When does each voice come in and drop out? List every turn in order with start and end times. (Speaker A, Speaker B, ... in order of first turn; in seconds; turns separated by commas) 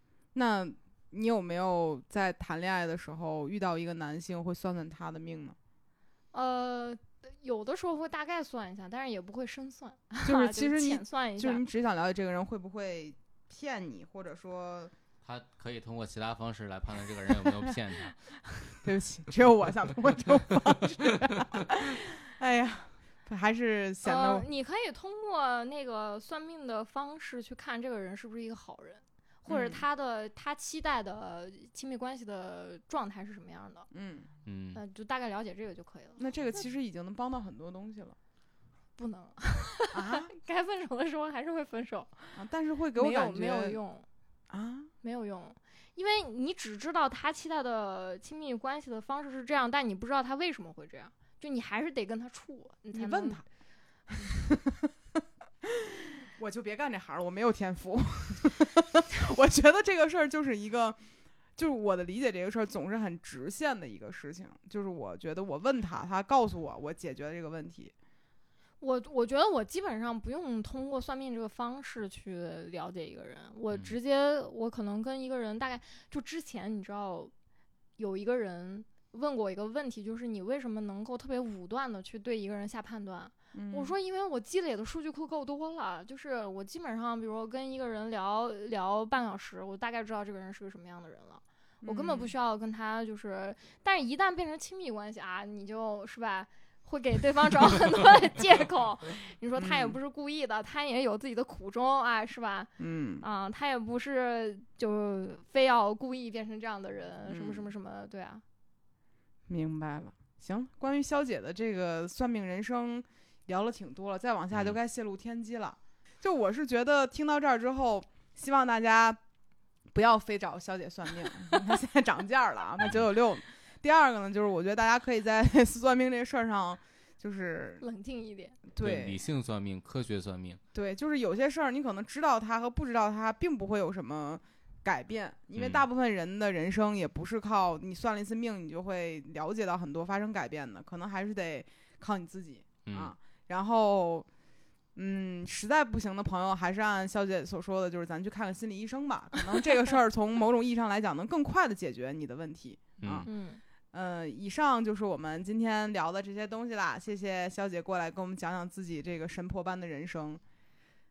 Speaker A: 0.3-5.5, Speaker B: 6.3-11.6, Speaker A: 10.2-14.9, Speaker C: 15.2-18.3, Speaker A: 18.8-24.4, Speaker B: 24.0-33.9, Speaker A: 29.5-29.8, Speaker A: 33.9-34.3, Speaker C: 34.4-34.8, Speaker B: 34.7-36.2, Speaker A: 36.2-38.2, Speaker B: 39.0-42.4, Speaker A: 39.9-40.3, Speaker A: 42.3-43.8, Speaker B: 43.0-44.1, Speaker A: 44.5-44.9, Speaker B: 45.0-53.4, Speaker A: 52.9-53.4, Speaker A: 54.1-54.9, Speaker A: 55.6-61.0, Speaker A: 61.6-67.9, Speaker B: 68.8-77.3, Speaker B: 78.0-108.4, Speaker A: 83.5-83.9, Speaker A: 91.8-92.3, Speaker A: 99.6-100.0, Speaker A: 102.8-103.2, Speaker A: 107.3-107.6, Speaker A: 109.5-119.2, Speaker A: 119.9-127.8, Speaker B: 127.8-128.6, Speaker A: 128.7-129.2, Speaker C: 128.8-130.6, Speaker A: 130.7-144.3, Speaker C: 135.6-135.8, Speaker C: 142.8-143.1, Speaker A: 144.9-153.3, Speaker C: 153.0-153.3, Speaker B: 153.2-153.6, Speaker A: 153.9-160.4